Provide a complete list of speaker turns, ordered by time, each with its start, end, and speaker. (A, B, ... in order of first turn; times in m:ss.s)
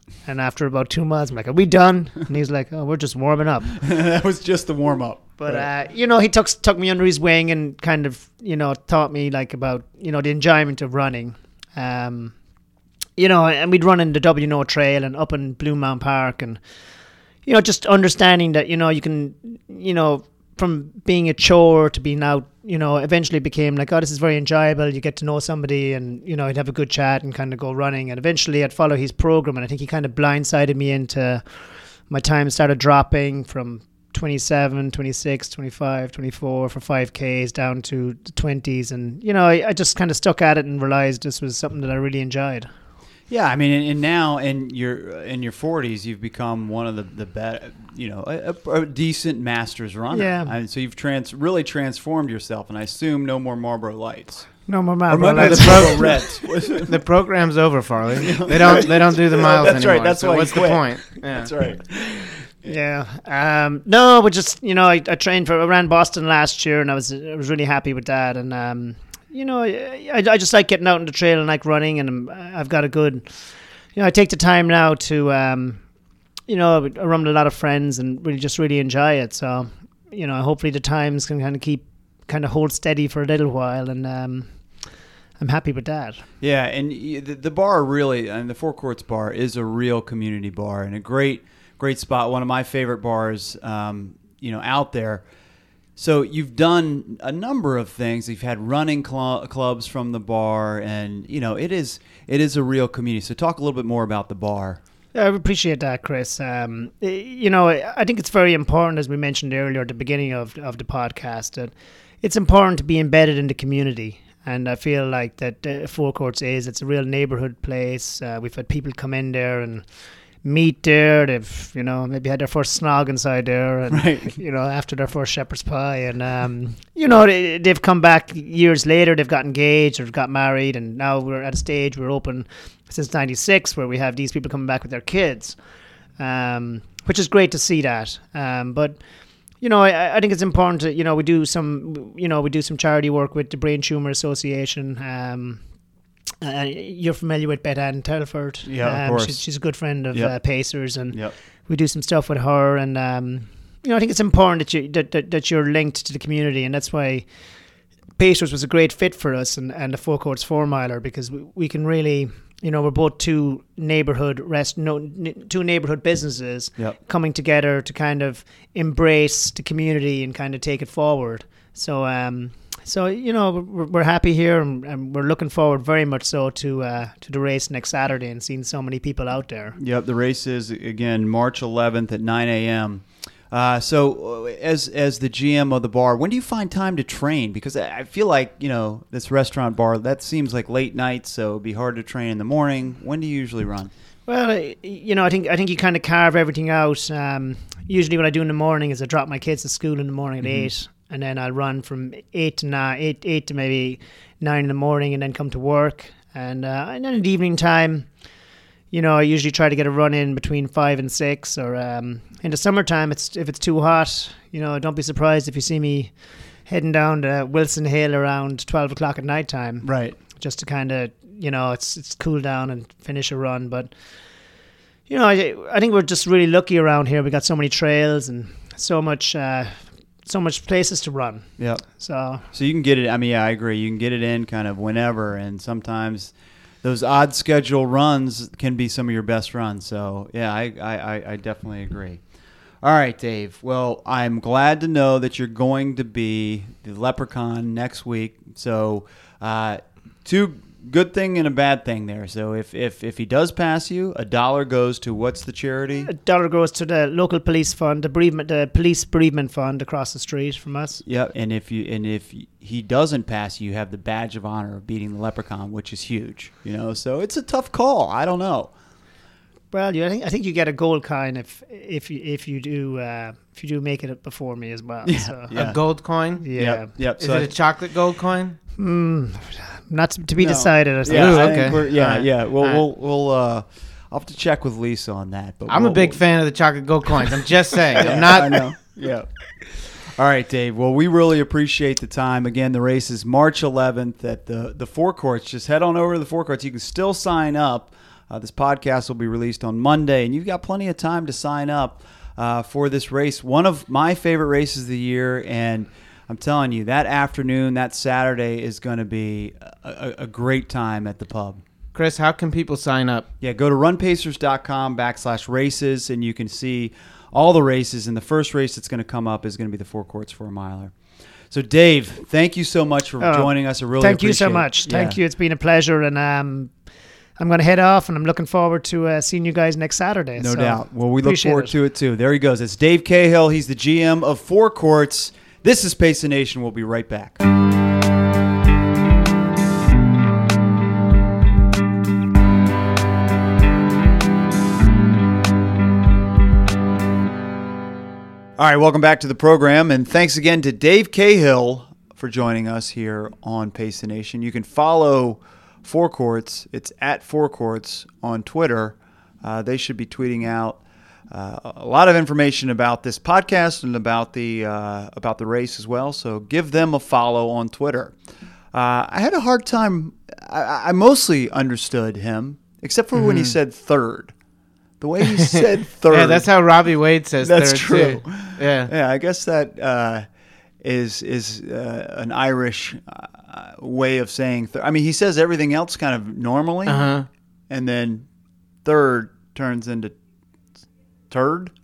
0:00.2-0:03.8 A
0:03.7-0:05.7 B
0:05.4-0:12.4 A
0:13.2-0:16.6 A
0:17.4-0:42.7 A
0:43.3-0:56.9 B
0:50.1-0:50.5 A
0:54.7-0:56.3 A
0:55.4-1:01.5 C
0:58.2-1:02.7 B
1:02.6-1:15.8 A
1:16.5-1:24.5 A
1:25.4-1:26.3 A
1:26.4-1:35.2 B
1:36.0-1:44.8 B
1:45.1-1:59.9 A
2:00.4-2:15.6 A
2:03.9-2:04.4 B
2:16.2-2:19.0 A
2:19.6-2:25.6 A
2:26.4-2:37.3 A
2:28.6-2:29.4 B
2:30.1-2:31.4 B
2:38.2-2:59.8 A
2:59.8-3:13.9 B
3:14.3-3:28.1 A
3:20.4-3:20.7 B
3:28.9-3:43.9 A
3:39.8-3:40.2 B
3:45.1-3:52.4 A
3:51.6-3:51.9 B
3:52.4-4:02.2 B
4:02.8-4:16.1 B
4:16.0-4:21.0 A
4:21.0-4:28.7 B
4:29.7-4:35.5 A
4:35.0-4:35.8 B
4:35.5-4:36.4 C
4:36.4-4:36.9 A
4:36.5-4:37.5 B
4:37.0-4:38.6 C
4:38.8-4:42.3 A
4:40.4-4:46.2 B
4:41.1-4:41.8 C
4:45.7-4:48.6 C
4:48.0-4:49.3 B
4:50.0-5:11.6 B
5:11.9-5:13.3 C
5:13.4-5:20.9 B
5:21.5-5:25.2 B
5:23.2-5:26.7 A
5:27.4-5:31.7 A
5:30.4-5:37.4 B
5:48.6-6:08.2 B
6:08.7-6:14.3 B
6:13.1-6:13.5 C
6:15.0-6:16.5 B
6:15.3-6:18.9 C
6:17.4-6:20.2 B
6:20.8-6:27.1 B
6:26.9-6:27.3 C
6:27.7-6:28.3 B
6:28.8-6:30.1 B
6:31.3-6:31.7 B